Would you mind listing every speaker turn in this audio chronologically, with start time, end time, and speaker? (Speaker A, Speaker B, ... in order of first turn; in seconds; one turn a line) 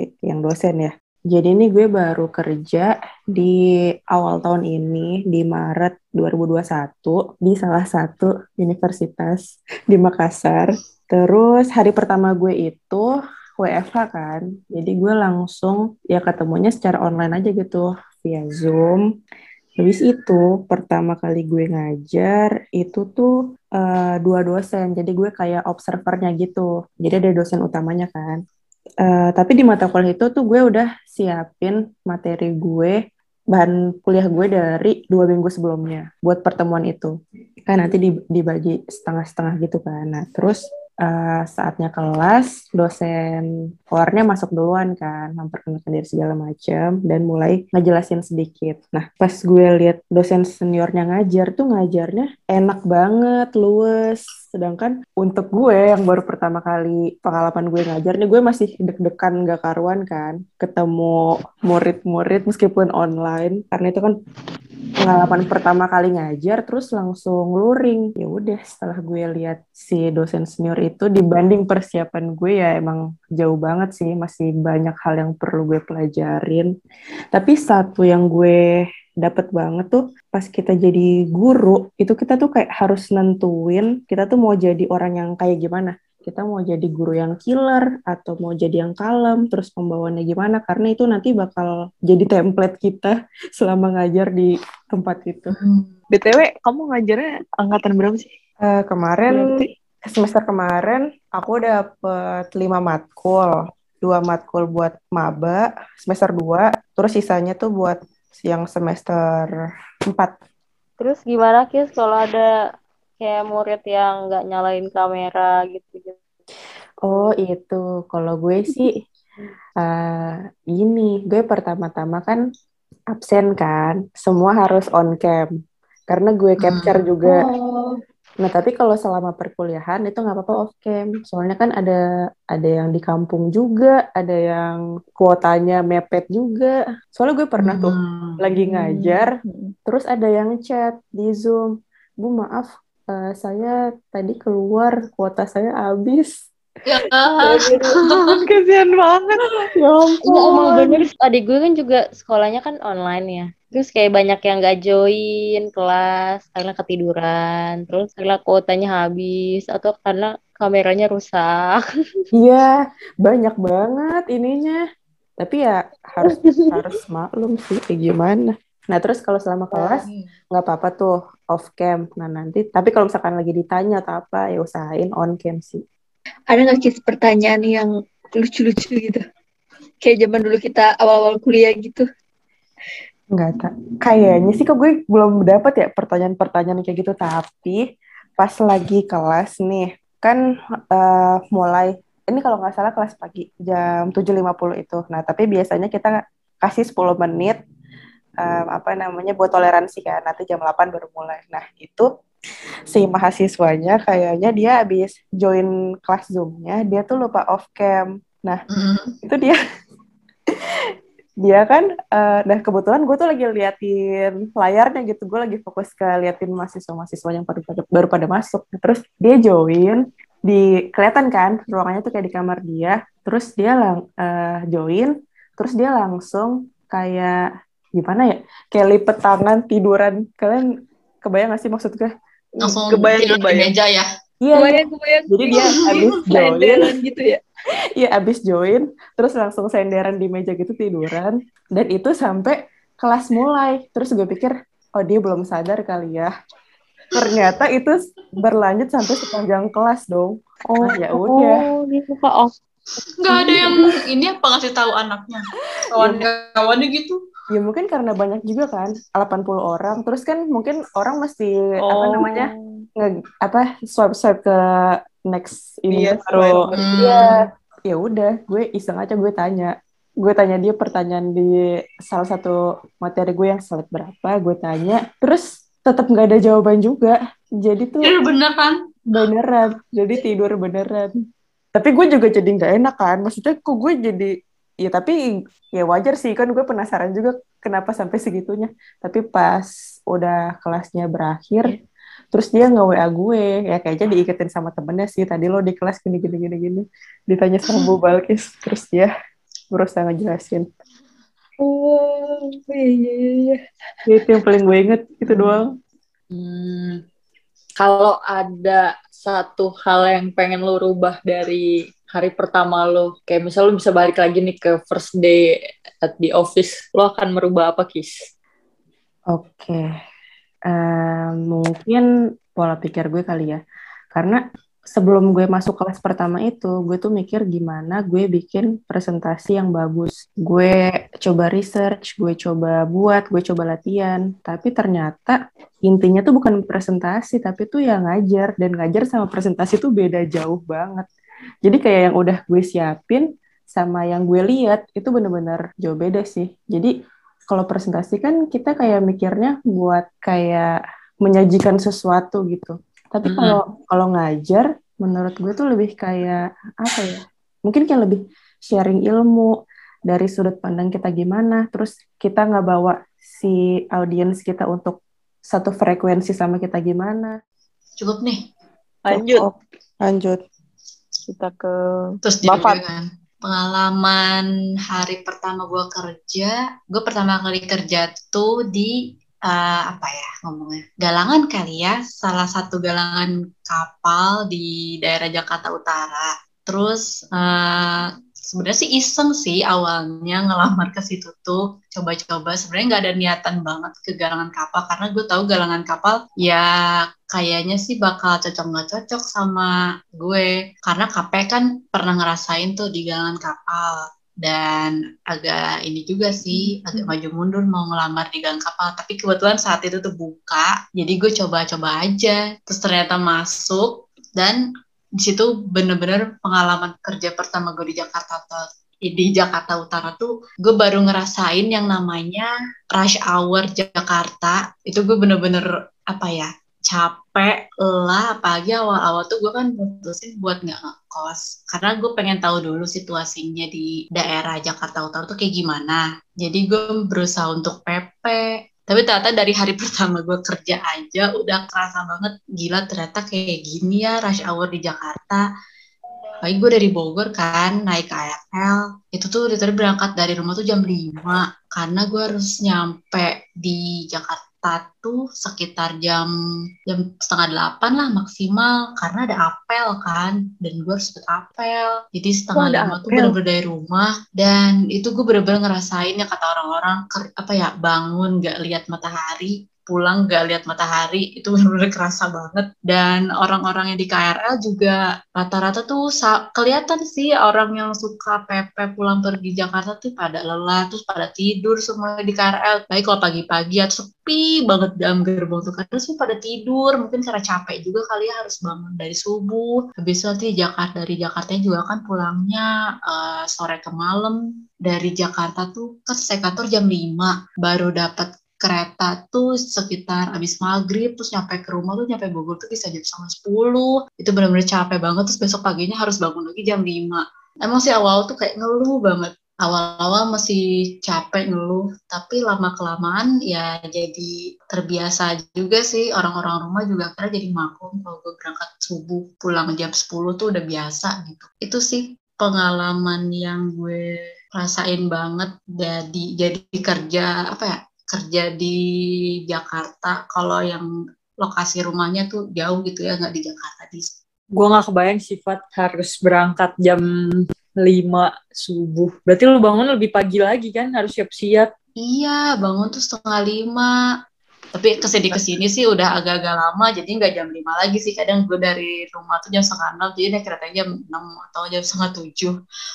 Speaker A: 0.2-19.0
Speaker A: 19.8-28.4
Speaker A: 29.0-33.0
Speaker A: 33.5-37.1
Speaker A: 37.7-64.1
Speaker A: 65.0-76.7
Speaker A: 77.3-78.6
Speaker A: 79.2-95.6
Speaker B: 96.1-98.3
Speaker A: 98.6-109.5
Speaker B: 99.3-99.7
Speaker A: 110.1-110.3
Speaker C: 111.0-112.5
Speaker C: 113.2-116.2
Speaker A: 117.0-118.9
Speaker A: 119.8-122.4
Speaker A: 123.1-125.5
Speaker A: 126.1-127.4
Speaker D: 126.6-127.0
Speaker A: 128.4-132.0
Speaker A: 132.5-139.3
Speaker D: 137.6-138.4
Speaker B: 138.6-139.8
Speaker A: 139.8-146.3
Speaker D: 146.9-148.1
Speaker A: 147.5-149.3
Speaker C: 150.2-161.8
Speaker A: 150.3-150.6
Speaker A: 162.3-164.8
Speaker A: 165.4-175.8
Speaker E: 176.5-179.2
Speaker E: 180.0-182.0
Speaker A: 183.3-187.8
Speaker A: 188.4-190.4
Speaker A: 190.9-197.6
Speaker A: 198.4-202.1
Speaker A: 202.9-208.6
Speaker D: 208.7-209.1
Speaker A: 209.2-209.6
Speaker A: 211.4-227.4
Speaker A: 227.9-230.7
Speaker A: 231.2-232.1
Speaker D: 232.6-234.1
Speaker B: 232.9-233.7
Speaker A: 234.4-236.9
Speaker E: 234.5-237.4
Speaker D: 235.6-236.1
Speaker A: 237.9-246.3
Speaker A: 247.1-251.6
Speaker C: 250.7-252.5
Speaker D: 253.2-257.2
Speaker C: 253.3-253.7
Speaker A: 256.0-256.2
Speaker A: 257.5-267.3
Speaker B: 261.9-262.8
Speaker B: 265.9-266.7
Speaker D: 266.7-267.3
Speaker A: 267.9-278.1
Speaker D: 278.0-278.8
Speaker A: 279.1-281.1
Speaker A: 281.8-285.1
Speaker A: 285.8-291.8
Speaker A: 292.3-299.1
Speaker A: 299.7-300.6
Speaker F: 301.6-303.6
Speaker A: 304.1-305.7
Speaker F: 306.3-307.0
Speaker F: 307.8-315.4
Speaker F: 316.0-318.3
Speaker A: 319.3-319.8
Speaker A: 320.7-323.6
Speaker A: 324.1-324.4
Speaker A: 324.9-341.1
Speaker A: 341.6-346.9
Speaker A: 347.5-350.7
Speaker A: 351.2-359.5
Speaker D: 353.3-353.6
Speaker A: 360.1-367.3
Speaker D: 368.0-368.5
Speaker B: 369.1-369.5
Speaker A: 369.1-370.4
Speaker B: 371.3-372.8
Speaker D: 372.2-396.7
Speaker D: 397.3-414.6
Speaker D: 415.2-445.5
Speaker D: 446.4-456.3
Speaker D: 456.9-528.8
Speaker B: 462.5-463.4
Speaker D: 529.5-530.9
Speaker D: 531.4-534.1
Speaker F: 534.5-537.0
Speaker F: 537.8-541.7
Speaker D: 542.0-543.9
Speaker D: 544.7-552.6